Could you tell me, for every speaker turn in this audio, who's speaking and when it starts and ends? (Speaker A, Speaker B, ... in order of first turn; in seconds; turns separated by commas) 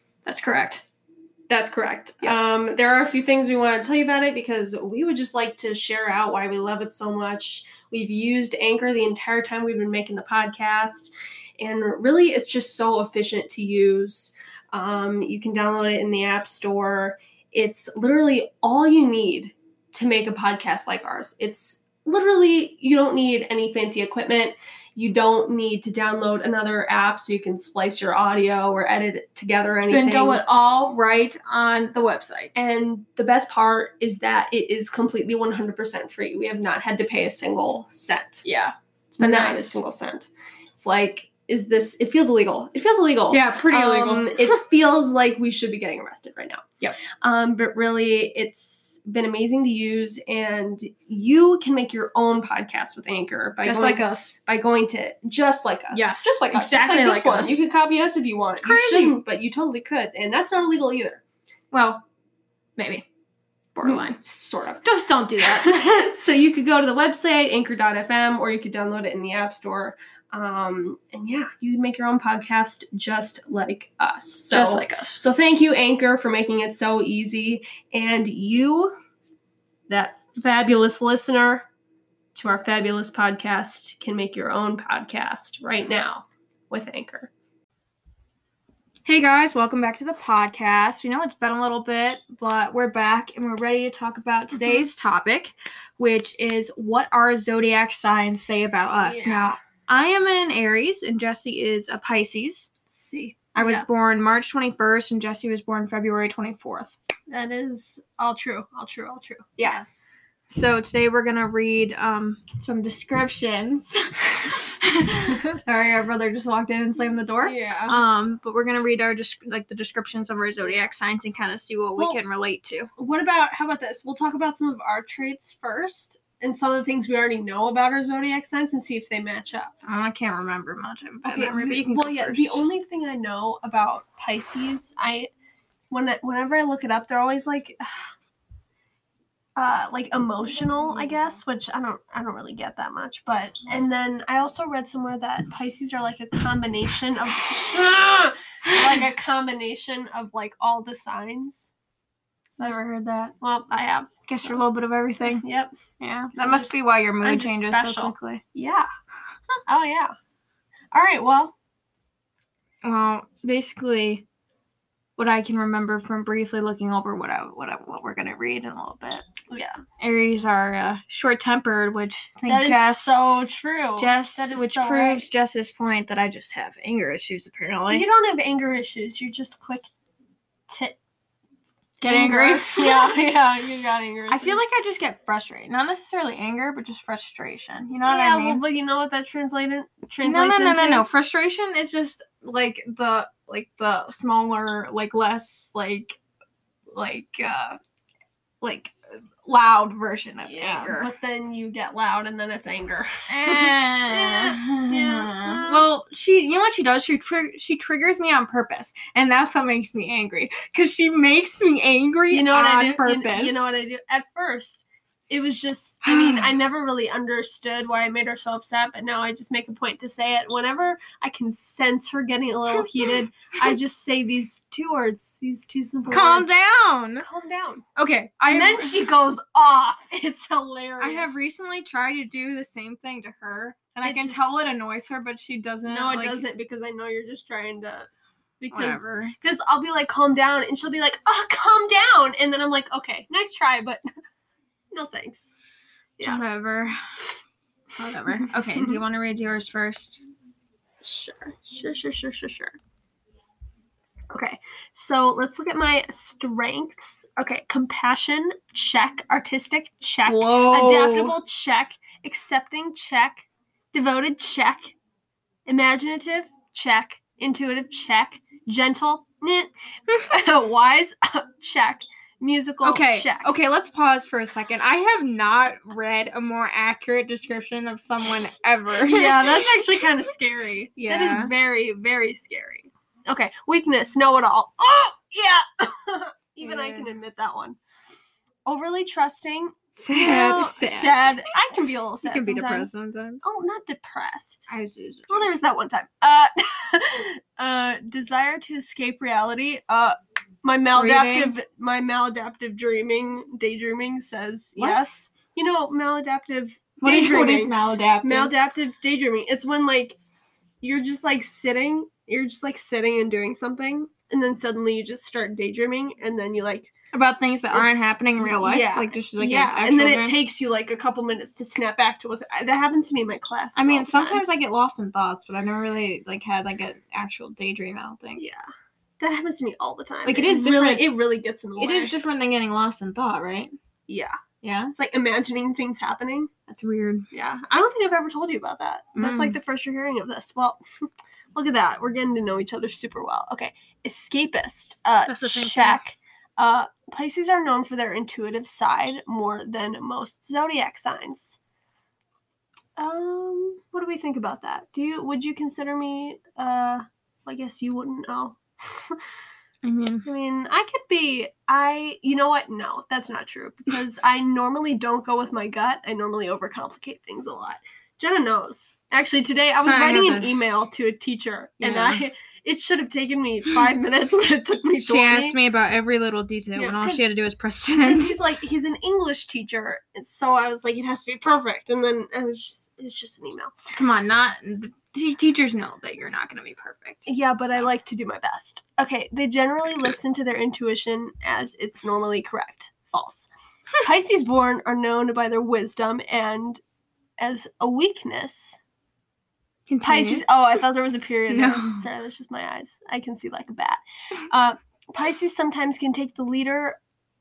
Speaker A: 0.3-0.8, Speaker A: 1.5-30.4, Speaker B: 29.9-32.5, Speaker A: 32.5-38.5, Speaker B: 38.5-39.8, Speaker A: 39.1-61.2, Speaker B: 43.3-44.5, Speaker B: 53.6-54.3, Speaker B: 55.9-57.6, Speaker B: 58.6-59.2, Speaker B: 61.7-62.0, Speaker B: 62.8-63.1, Speaker B: 63.8-64.2, Speaker A: 63.8-64.9, Speaker B: 64.8-65.8, Speaker A: 65.4-79.0, Speaker B: 74.5-75.2, Speaker A: 79.9-81.7, Speaker A: 82.3-87.3, Speaker B: 89.0-102.7, Speaker A: 99.0-99.6, Speaker A: 102.9-103.9, Speaker B: 103.5-106.9, Speaker A: 107.3-110.0, Speaker B: 109.6-109.8, Speaker B: 110.5-122.9, Speaker A: 117.4-118.0, Speaker A: 123.0-129.7, Speaker B: 129.8-132.7, Speaker A: 131.3-135.3, Speaker A: 135.9-138.1, Speaker A: 139.6-151.7, Speaker A: 152.5-152.8, Speaker B: 152.6-153.3, Speaker A: 153.4-154.6, Speaker B: 154.3-155.4, Speaker A: 155.2-155.7, Speaker B: 156.0-158.4, Speaker A: 156.3-158.9, Speaker A: 159.7-160.2, Speaker A: 160.9-161.5, Speaker B: 162.8-164.2, Speaker B: 165.2-169.3, Speaker A: 169.5-169.8, Speaker B: 170.0-173.2, Speaker A: 172.5-175.3, Speaker B: 174.0-178.1, Speaker A: 177.9-179.9, Speaker A: 180.7-181.0, Speaker A: 182.0-184.6, Speaker B: 182.0-183.2, Speaker B: 184.3-188.6, Speaker A: 188.1-191.1, Speaker B: 190.2-196.2, Speaker B: 196.9-197.8, Speaker B: 198.6-201.1, Speaker A: 200.5-205.8, Speaker B: 203.3-213.7, Speaker A: 212.3-226.5, Speaker B: 216.0-216.5, Speaker B: 222.7-223.7, Speaker B: 226.1-227.3, Speaker A: 227.2-227.9, Speaker B: 228.0-229.1, Speaker A: 228.5-231.3, Speaker B: 231.0-236.4, Speaker A: 234.0-234.6, Speaker A: 235.9-238.1, Speaker A: 238.6-244.0, Speaker B: 238.7-239.3, Speaker A: 244.9-245.6, Speaker B: 246.3-247.0, Speaker B: 248.0-250.2, Speaker A: 251.0-252.8, Speaker A: 254.3-265.0, Speaker B: 260.3-261.4, Speaker A: 265.7-273.5, Speaker B: 272.8-279.7, Speaker A: 278.9-287.8, Speaker B: 281.0-281.5, Speaker B: 286.6-287.1, Speaker A: 288.7-292.9, Speaker B: 290.0-291.4, Speaker B: 292.2-293.5, Speaker A: 293.4-294.7, Speaker B: 294.7-295.5, Speaker A: 295.3-310.2, Speaker B: 300.9-301.6, Speaker B: 304.8-305.1, Speaker B: 307.0-308.5, Speaker A: 310.8-316.9, Speaker B: 317.1-320.4, Speaker A: 318.4-324.4, Speaker B: 323.8-328.5, Speaker A: 328.4-328.7, Speaker A: 329.2-332.1, Speaker B: 330.3-331.1, Speaker B: 331.8-333.7, Speaker A: 334.1-334.4, Speaker B: 334.6-334.9, Speaker A: 334.9-336.5, Speaker B: 336.7-337.2, Speaker A: 337.3-340.8, Speaker B: 339.2-339.6, Speaker A: 341.5-351.6, Speaker B: 345.3-346.0, Speaker A: 353.0-359.2, Speaker B: 359.8-360.2, Speaker A: 360.2-375.6, Speaker B: 369.8-370.6, Speaker B: 371.8-372.2, Speaker B: 375.1-378.4, Speaker A: 376.8-377.2, Speaker A: 378.0-383.7, Speaker B: 383.9-387.9, Speaker A: 387.3-393.5, Speaker A: 394.0-396.8, Speaker A: 397.4-398.8, Speaker B: 399.9-400.5, Speaker A: 400.0-407.0, Speaker B: 401.5-402.1